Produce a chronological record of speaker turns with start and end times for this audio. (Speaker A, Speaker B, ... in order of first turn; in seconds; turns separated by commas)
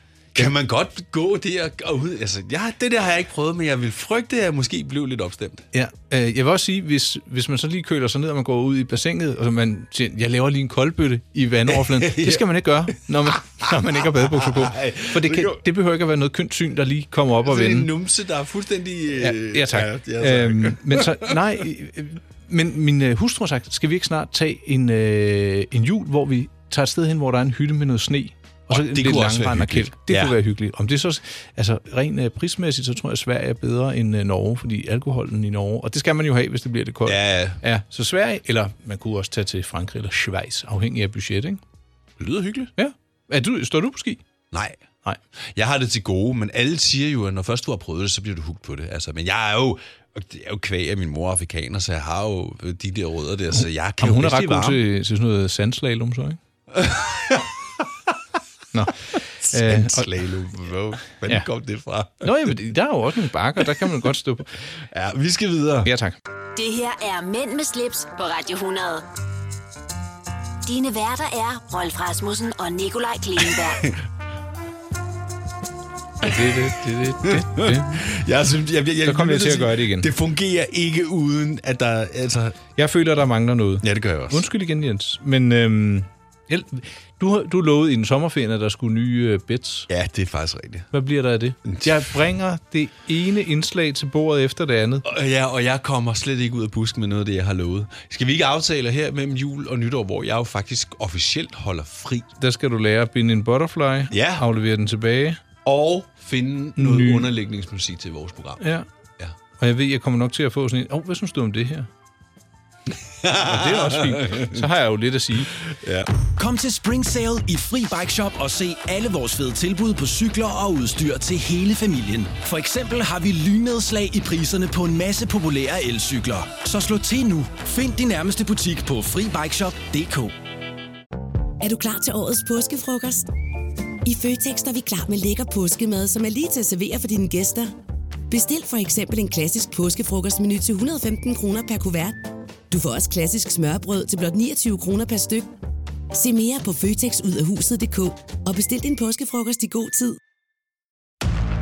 Speaker A: 0.3-5.7, Speaker B: 5.7-17.9, Speaker A: 11.7-15.6, Speaker A: 17.4-21.4, Speaker B: 19.2-41.6, Speaker A: 28.7-30.3, Speaker A: 37.0-37.6, Speaker A: 42.2-42.7, Speaker B: 42.8-44.2, Speaker A: 44.5-44.8, Speaker A: 45.4-54.8, Speaker B: 53.6-56.4, Speaker A: 56.7-57.5, Speaker B: 58.7-60.1, Speaker A: 59.4-62.5, Speaker B: 62.2-64.5, Speaker A: 64.9-65.9, Speaker B: 65.8-66.2, Speaker C: 66.5-69.0, Speaker C: 70.6-73.9, Speaker A: 73.5-73.9, Speaker B: 76.2-78.0, Speaker A: 77.2-82.6, Speaker B: 79.0-80.1, Speaker B: 82.7-89.9, Speaker A: 83.8-84.4, Speaker A: 89.9-90.9, Speaker B: 90.9-95.0, Speaker A: 91.6-92.1, Speaker A: 95.0-102.3, Speaker B: 102.4-105.4, Speaker A: 104.1-104.4, Speaker A: 105.6-108.6, Speaker B: 106.8-107.3, Speaker B: 108.6-108.9, Speaker B: 109.6-111.9, Speaker A: 113.2-114.7, Speaker B: 113.4-115.5, Speaker A: 115.5-116.1, Speaker D: 116.3-130.3, Speaker E: 131.6-133.3, Speaker E: 134.0-137.7, Speaker E: 138.3-145.5, Speaker E: 146.1-150.2